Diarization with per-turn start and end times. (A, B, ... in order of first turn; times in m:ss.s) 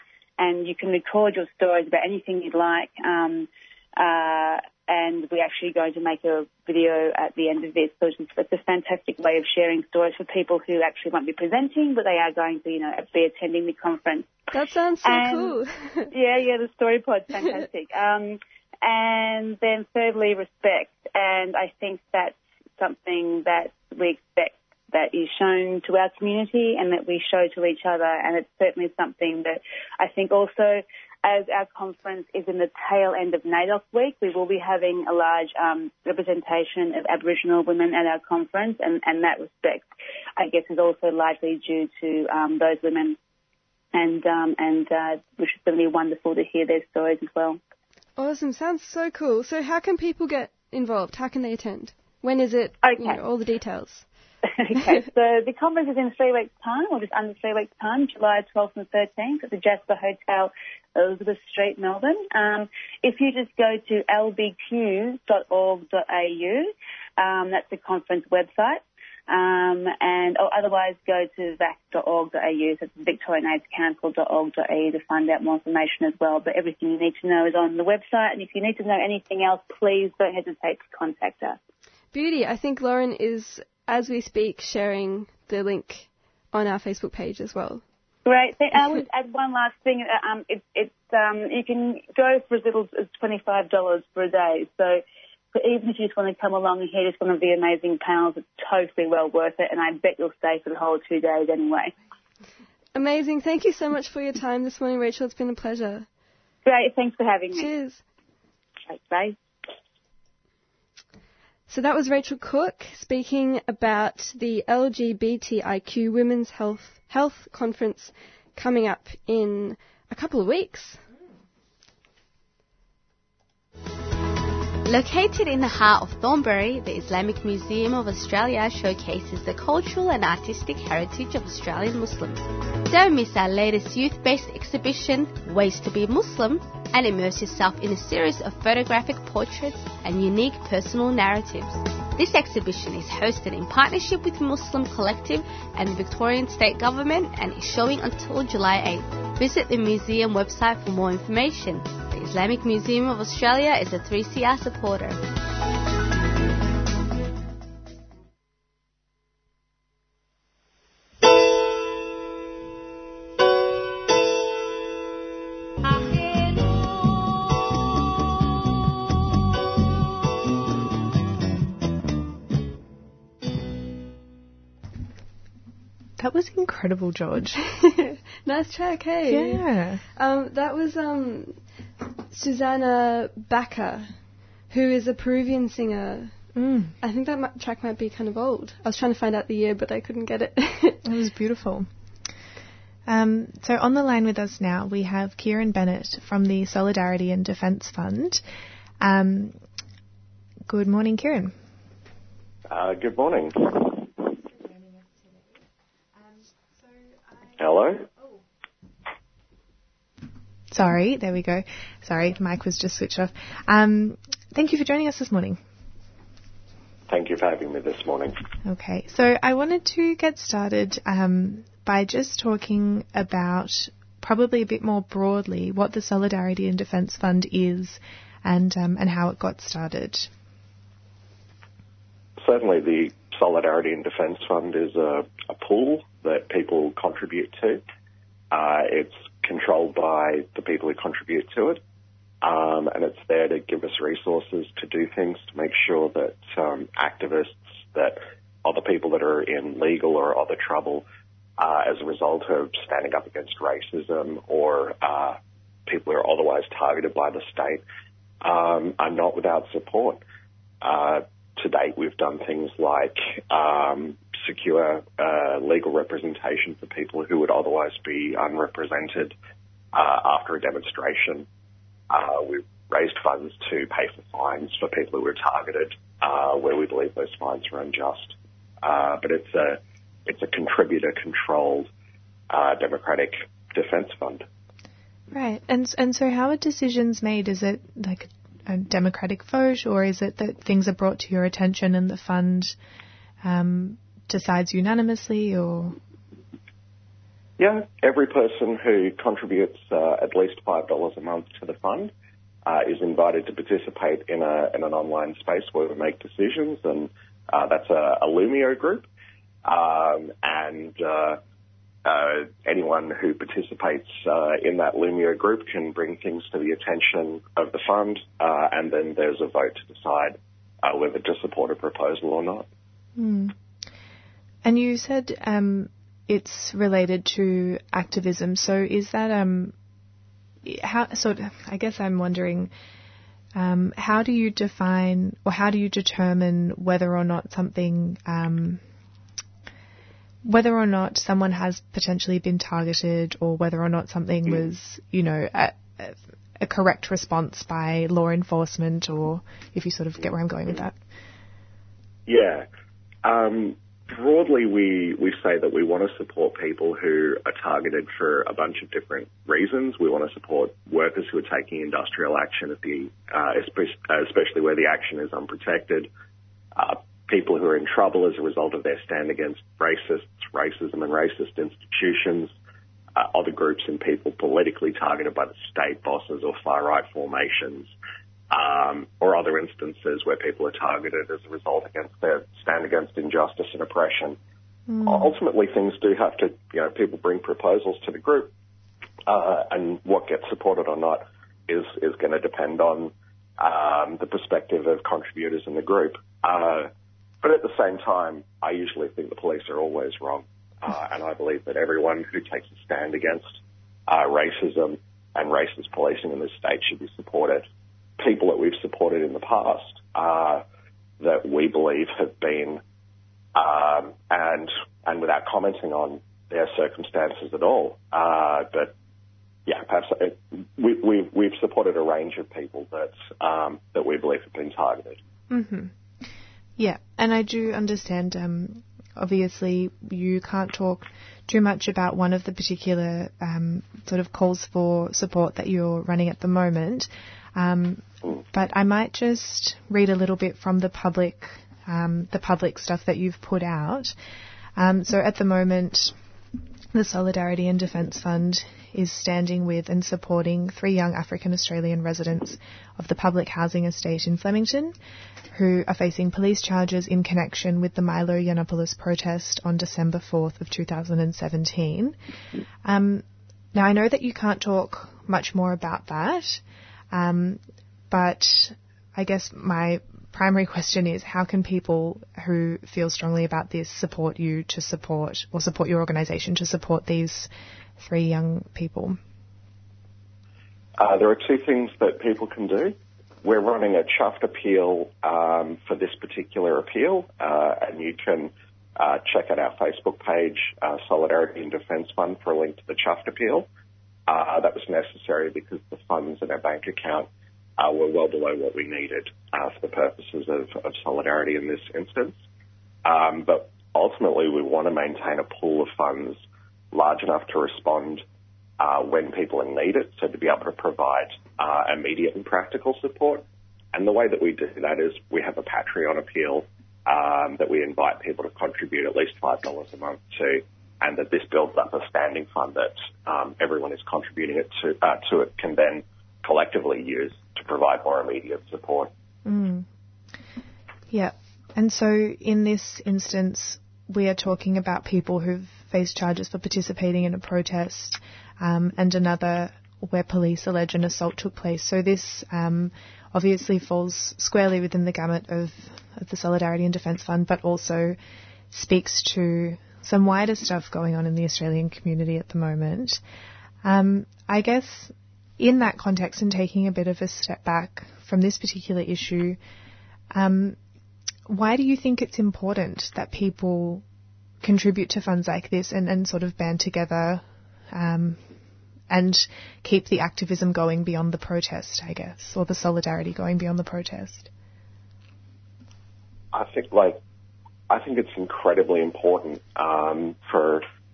0:00.4-0:14.3 A
0:14.5-0:16.1 B
0:15.0-0:15.6 A
0:16.1-0:43.2 A
0:43.9-0:47.6 A
0:48.2-0:54.0 B
0:52.8-0:53.2 A
0:54.6-1:21.6 A
1:22.1-1:27.8 B
1:28.2-1:35.0 A
1:35.5-1:41.9 A
1:42.9-1:46.1 B
1:46.6-1:47.7 A
1:47.5-1:48.0 B
1:48.9-1:49.4 A
1:51.7-2:01.0 B
2:04.8-2:35.2 C
2:56.2-2:57.6 D
2:57.7-2:59.6 B
2:59.3-3:00.0 D
3:00.2-3:01.6 B
3:02.3-3:04.1 B
3:04.7-3:06.3 B
3:06.5-3:06.9 D
3:07.0-3:11.0 B
3:11.0-3:11.9 D
3:13.1-3:18.4 D
3:19.0-3:19.6 D
3:20.7-3:21.5 D
3:22.7-3:24.1 E
3:24.4-3:25.6 D
3:26.2-3:27.5 D
3:27.6-3:28.0 E
3:30.7-3:35.6 D
3:37.1-3:38.3 E
3:38.6-3:50.3 D
3:52.4-3:57.8 E
3:58.5-4:01.8 E
4:02.4-4:11.0 E
4:11.6-4:17.8 E
4:18.4-4:20.2 E
4:20.8-4:29.3 E
4:29.9-4:31.4 E
4:32.1-4:41.9 E
4:42.5-4:44.4 E
4:45.3-4:52.7 D
4:53.4-4:56.0 D
4:57.6-5:02.1 E
5:02.6-5:09.1 E
5:09.6-5:11.4 E
5:12.0-5:22.7 E
5:23.2-5:23.5 D
5:24.6-5:29.7 D
5:30.6-5:32.7 D
5:33.5-5:38.8 D
5:40.4-5:51.0 D
5:52.3-5:52.6 E
5:53.2-6:06.1 E
6:06.8-6:12.5 E
6:13.2-6:17.9 E
6:18.5-6:24.4 E
6:24.9-6:25.4 D
6:25.0-6:28.5 E
6:29.3-6:36.9 E
6:37.4-6:47.6 E
6:48.2-6:50.6 E
6:51.2-6:52.8 E
6:53.6-6:58.9 E
6:59.6-7:05.2 E
7:05.5-7:05.9 D
7:06.8-7:24.1 D
7:24.8-7:26.1 D
7:26.9-7:35.0 D
7:35.5-7:42.2 D
7:42.8-7:59.2 D
8:01.0-8:13.7 E
8:14.3-8:22.4 E
8:23.0-8:26.4 E
8:26.9-8:28.2 E
8:28.8-8:49.1 E
8:49.4-8:49.9 D
8:51.1-9:08.2 D
9:08.7-9:13.2 D
9:13.8-9:19.6 D
9:20.3-9:20.8 D
9:21.5-9:24.0 D
9:24.6-9:28.4 D
9:29.1-9:34.5 D
9:36.5-9:37.2 E
9:37.9-9:40.8 E